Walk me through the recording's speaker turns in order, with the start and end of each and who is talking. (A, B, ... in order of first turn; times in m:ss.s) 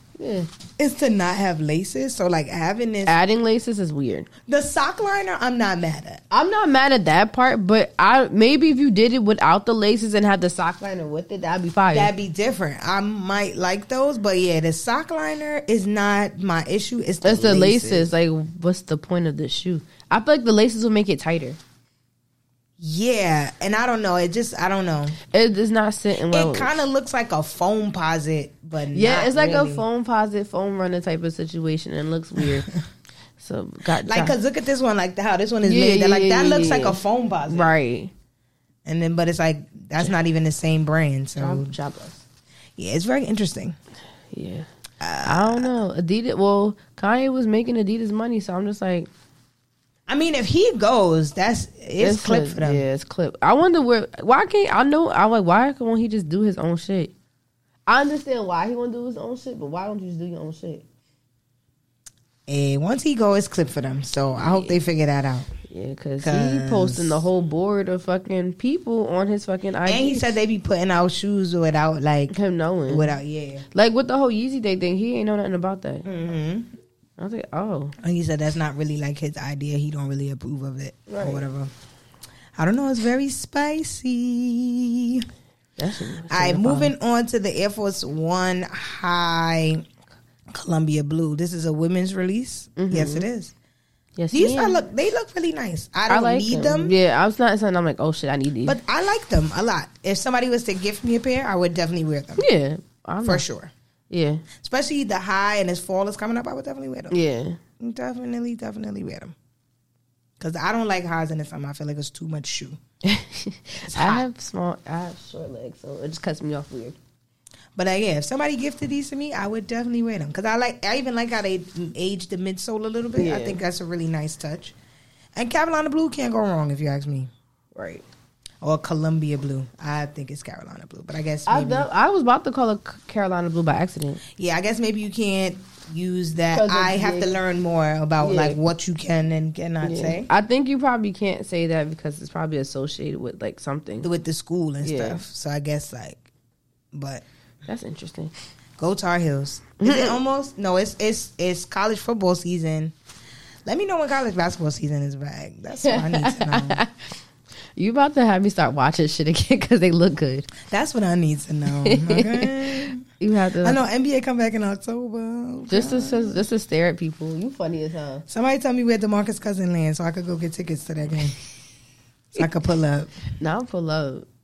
0:00.2-0:00.5 A
0:00.8-0:03.2 B
0:03.0-0:04.3 A
0:04.5-0:06.2 B
0:06.3-0:12.1 A
0:11.9-0:18.1 B
0:17.2-0:21.6 A
0:22.8-0:25.2 B
0:25.3-0:26.8 A
0:26.3-0:29.8 B
0:28.9-0:32.7 A
0:33.4-0:34.4 A
0:34.0-0:37.7 B
0:35.6-0:38.1 A
0:38.8-0:41.7 B
0:41.4-0:42.2 A
0:42.8-0:43.8 B
0:44.3-0:44.7 A
0:45.0-0:45.8 B
0:45.2-0:49.1 A
0:50.1-0:52.8 B
0:52.0-0:57.1 A
0:57.9-1:00.8 A
1:02.5-1:05.5 B
1:04.4-1:04.8 A
1:05.7-1:10.3 A
1:06.2-1:07.2 B
1:09.8-1:12.3 B
1:12.3-1:13.1 A
1:12.9-1:13.6 B
1:13.7-1:16.1 A
1:16.0-1:16.7 B
1:17.2-1:17.9 A
1:18.0-1:21.7 B
1:21.1-1:21.4 A
1:22.6-1:25.3 B
1:25.8-1:26.9 A
1:26.3-1:29.8 B
1:30.5-1:33.5 B
1:32.8-1:33.3 A
1:34.2-1:34.8 A
1:34.3-1:36.9 B
1:36.1-1:38.8 A
1:38.7-1:42.5 B
1:42.4-1:43.4 A
1:43.2-1:43.7 B
1:44.1-1:44.4 A
1:44.6-1:47.2 B
1:47.1-1:47.6 A
1:47.8-1:49.4 B
1:50.4-1:52.8 B
1:53.0-1:57.0 A
1:53.9-1:54.2 B
1:57.8-2:04.8 B
2:03.2-2:03.6 A
2:05.4-2:07.3 B
2:07.8-2:08.0 A
2:08.6-2:11.9 B
2:11.5-2:14.2 A
2:14.4-2:20.3 B
2:16.5-2:17.4 A
2:18.2-2:18.6 A
2:19.8-2:24.1 A
2:24.0-2:26.2 B
2:24.8-2:25.2 A
2:26.9-2:27.2 B
2:27.7-2:28.3 A
2:28.8-2:32.9 B
2:29.8-2:30.2 A
2:33.7-2:36.8 B
2:35.8-2:36.9 A
2:37.8-2:40.5 A
2:40.6-2:43.0 B
2:41.8-2:43.8 A
2:43.6-2:46.4 B
2:45.7-2:48.3 A
2:48.3-2:51.4 B
2:52.3-2:53.1 B
2:53.4-2:54.3 A